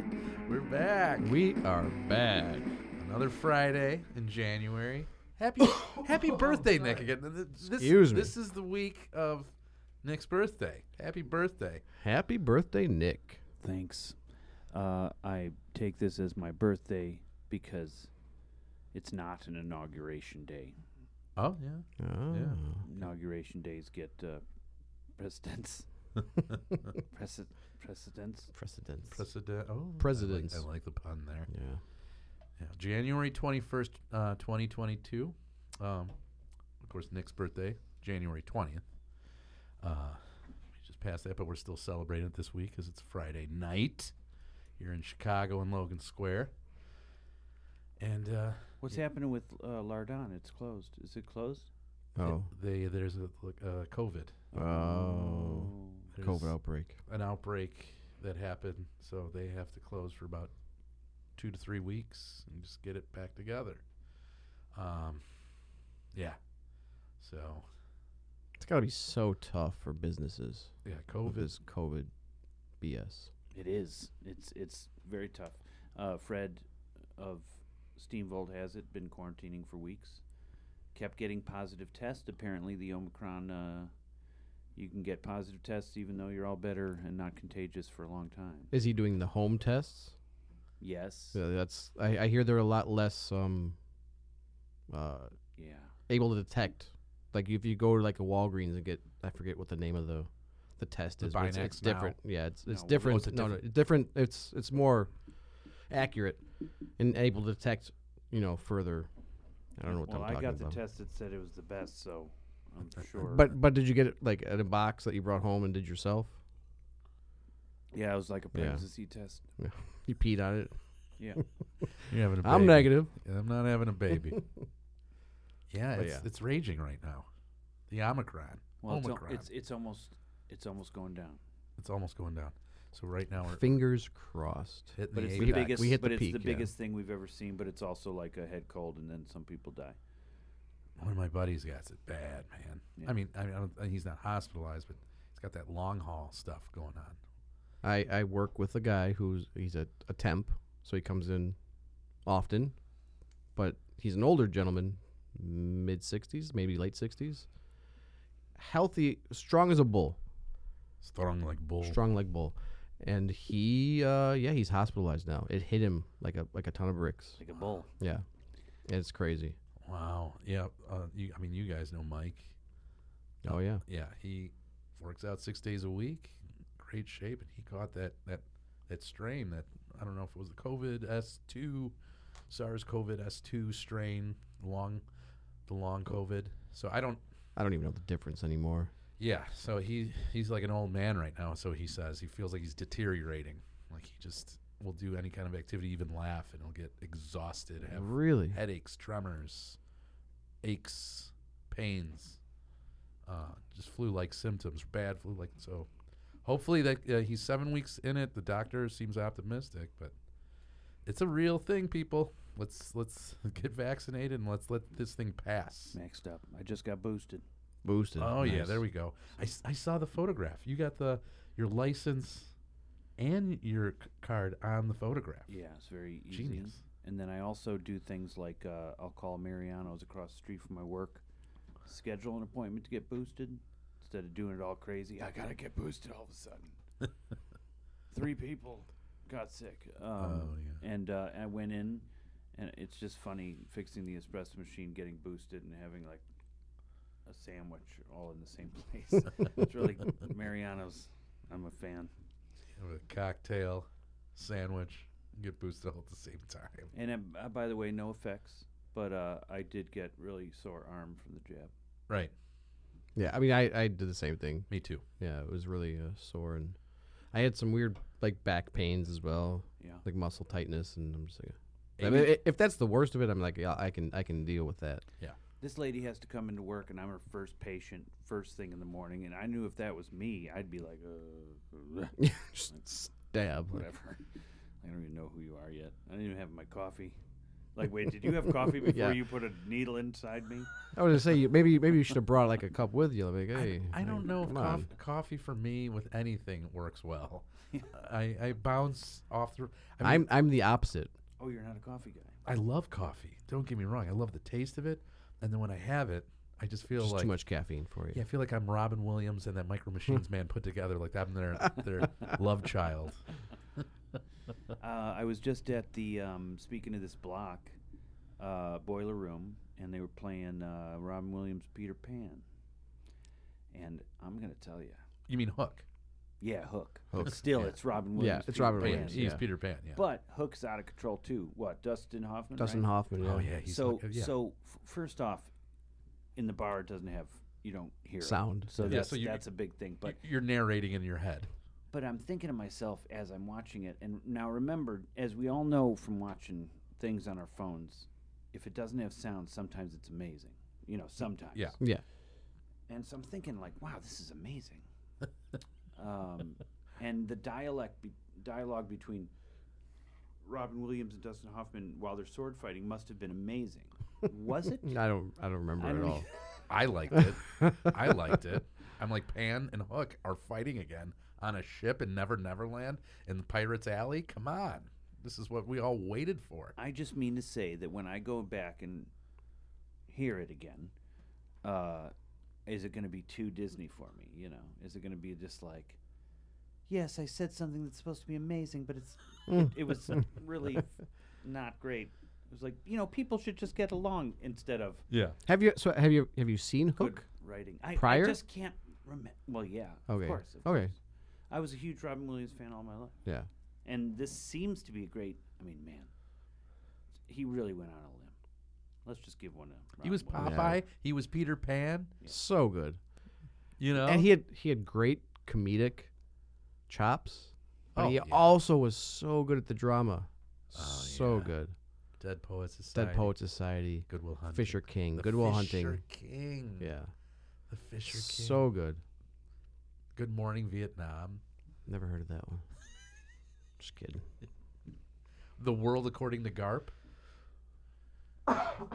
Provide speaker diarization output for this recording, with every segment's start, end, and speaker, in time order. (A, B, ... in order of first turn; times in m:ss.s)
0:00.4-0:01.3 A
0:01.2-0:02.8 B
0:03.0-0:09.5 A
0:07.8-0:08.3 B
0:10.0-0:11.8 A
0:12.0-0:13.4 B
0:13.6-0:14.2 C
0:14.7-0:18.1 C
0:18.9-0:20.8 C
0:21.4-0:22.6 A
0:22.0-0:22.8 B
0:22.8-0:24.4 C
0:25.2-0:25.9 C
0:27.0-0:28.5 C
0:28.5-0:29.2 B
0:29.1-0:31.5 A
0:30.0-0:30.6 B
0:31.5-0:31.8 B
0:32.6-0:36.1 A
0:36.8-0:38.8 A
0:39.8-0:40.2 A
0:40.8-0:44.1 A
0:44.8-0:46.5 A
0:48.0-0:48.8 A
0:48.8-0:51.7 C
0:52.2-0:52.5 B
0:52.2-0:54.4 A
0:54.5-0:56.1 C
0:54.5-0:57.0 B
0:56.1-0:56.5 A
0:57.1-1:00.5 A
1:01.4-1:03.8 A
1:04.7-1:05.2 A
1:07.2-1:07.6 A
1:08.6-1:10.7 B
1:10.8-1:11.5 A
1:11.3-1:12.1 B
1:12.8-1:13.3 B
1:13.5-1:16.6 C
1:17.2-1:20.2 C
1:20.9-1:23.9 C
1:24.7-1:28.7 C
1:28.7-1:30.1 B
1:30.8-1:31.4 C
1:31.3-1:33.8 B
1:34.9-1:35.3 B
1:35.6-1:35.9 C
1:36.1-1:45.1 B
1:41.2-1:42.2 A
1:42.7-1:43.2 C
1:43.0-1:43.6 A
1:45.9-1:46.4 B
1:47.0-1:49.1 B
1:49.8-1:50.8 B
1:49.9-1:53.5 C
1:53.2-1:56.3 B
1:57.9-1:59.4 C
1:58.5-1:58.8 B
1:59.6-2:00.8 B
2:01.4-2:03.1 B
2:02.1-2:04.4 A
2:05.7-2:07.3 A
2:05.9-2:06.2 B
2:07.9-2:09.4 A
2:08.8-2:11.4 C
2:11.8-2:13.8 A
2:13.4-2:16.7 B
2:14.9-2:15.9 A
2:15.1-2:20.0 C
2:21.0-2:27.2 A
2:27.8-2:31.6 B
2:32.2-2:32.8 B
2:33.5-2:37.4 B
2:38.6-2:40.2 B
2:41.0-2:42.0 A
2:41.8-2:47.4 B
2:47.4-2:47.9 C
2:48.0-2:48.2 B
2:48.8-2:49.6 B
2:49.8-2:52.5 A
2:53.4-2:53.8 B
2:53.5-3:01.9 A
3:02.5-3:05.0 A
3:05.7-3:07.2 A
3:07.6-3:08.9 B
3:09.2-3:19.8 A
3:17.9-3:18.6 B
3:20.6-3:22.4 A
3:23.2-3:25.9 A
3:26.4-3:30.1 A
3:31.0-3:36.0 A
3:35.9-3:37.4 C
3:37.8-3:38.8 B
3:38.2-3:42.5 A
3:43.2-3:45.5 A
3:45.5-3:51.2 C
3:46.3-3:46.8 A
3:51.8-3:56.8 C
3:58.1-4:06.2 C
4:00.2-4:00.8 A
4:07.2-4:12.1 C
4:12.8-4:16.9 A
4:16.9-4:21.7 C
4:23.1-4:24.7 B
4:24.7-4:25.0 A
4:25.2-4:26.8 B
4:27.3-4:35.0 B
4:32.0-4:32.4 A
4:35.6-4:42.2 C
4:42.2-4:43.8 B
4:43.7-4:44.2 C
4:44.8-4:47.2 C
4:47.7-4:50.7 C
4:48.4-4:49.2 B
4:50.9-4:54.9 B
4:53.5-5:00.3 A
5:00.0-5:01.1 B
5:01.4-5:02.4 C
5:02.4-5:07.4 A
5:07.0-5:08.2 B
5:08.1-5:13.2 A
5:14.8-5:17.8 C
5:18.4-5:22.4 C
5:23.7-5:25.0 C
5:25.3-5:25.8 A
5:26.4-5:29.2 C
5:27.1-5:29.4 B
5:28.8-5:30.0 A
5:29.9-5:32.9 C
5:32.6-5:33.5 B
5:33.2-5:34.3 A
5:33.6-5:35.5 C
5:36.4-5:40.2 C
5:38.2-5:39.0 B
5:38.8-5:39.4 A
5:40.0-5:41.5 A
5:41.9-5:51.8 C
5:52.9-5:54.8 C
5:56.0-5:59.3 C
6:00.4-6:05.0 C
6:04.8-6:06.2 B
6:05.8-6:06.3 C
6:06.7-6:16.7 A
6:16.8-6:19.1 C
6:20.1-6:20.9 C
6:21.6-6:22.1 C
6:22.7-6:26.0 C
6:26.9-6:35.0 C
6:35.1-6:35.4 A
6:35.5-6:37.2 B
6:37.0-6:40.9 C
6:37.9-6:38.4 B
6:40.1-6:40.9 B
6:41.5-6:43.2 C
6:43.8-6:46.1 C
6:47.3-6:48.3 C
6:49.0-6:50.7 C
6:50.0-6:52.1 A
6:50.4-6:50.8 B
6:52.3-6:53.0 B
6:53.8-6:54.3 A
6:54.0-6:56.1 B
6:56.9-7:01.7 B
6:57.9-6:58.5 A
7:00.7-7:01.5 A
7:02.2-7:03.3 A
7:02.9-7:06.0 B
7:04.1-7:06.9 A
7:06.8-7:07.1 B
7:07.7-7:08.6 A
7:08.1-7:09.0 B
7:10.2-7:11.4 A
7:11.9-7:12.6 B
7:13.8-7:14.2 B
7:15.6-7:16.9 A